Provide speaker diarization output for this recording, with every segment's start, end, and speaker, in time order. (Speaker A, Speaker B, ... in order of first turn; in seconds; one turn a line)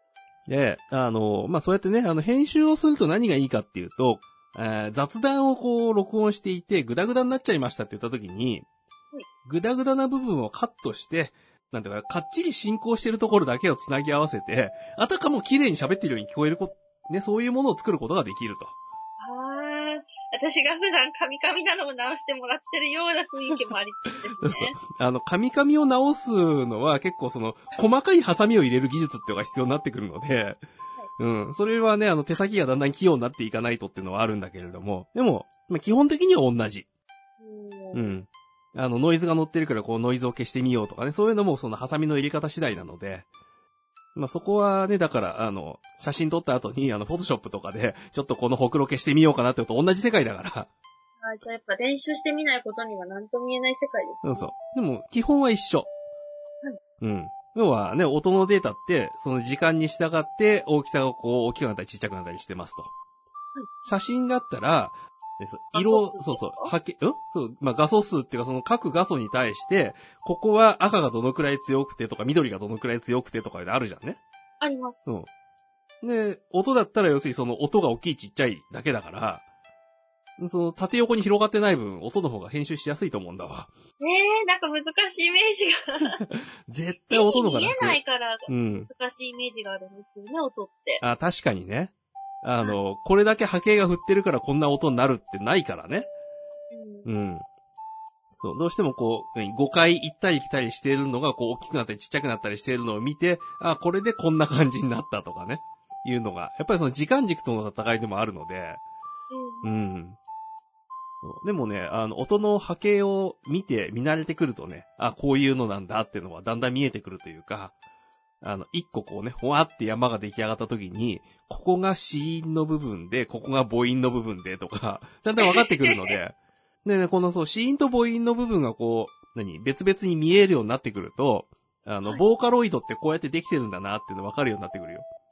Speaker A: 0.5-8.7
Speaker A: 9.4-18.8
Speaker B: 19.2-24.8
Speaker A: 24.4-30.6
Speaker A: 31.2-36.9
Speaker B: 37.4-38.2
Speaker A: 37.9-43.3
Speaker A: 44.1-50.7
Speaker B: 51.2-54.5
Speaker A: 54.2-55.9
Speaker A: 57.0-62.9
Speaker A: 63.9-74.2
Speaker B: 65.7-66.7
Speaker B: 74.6-75.2
Speaker A: 76.0-79.4
Speaker A: 80.4-83.7
Speaker B: 84.0-86.2
Speaker A: 86.2-88.9
Speaker B: 87.1-91.0
Speaker A: 91.0-96.1
Speaker B: 96.7-97.1
Speaker A: 97.0-97.5
Speaker A: 98.4-108.8
Speaker B: 109.3-109.7
Speaker A: 109.6-110.2
Speaker A: 111.2-117.7
Speaker A: 118.4-135.1
Speaker B: 125.4-126.2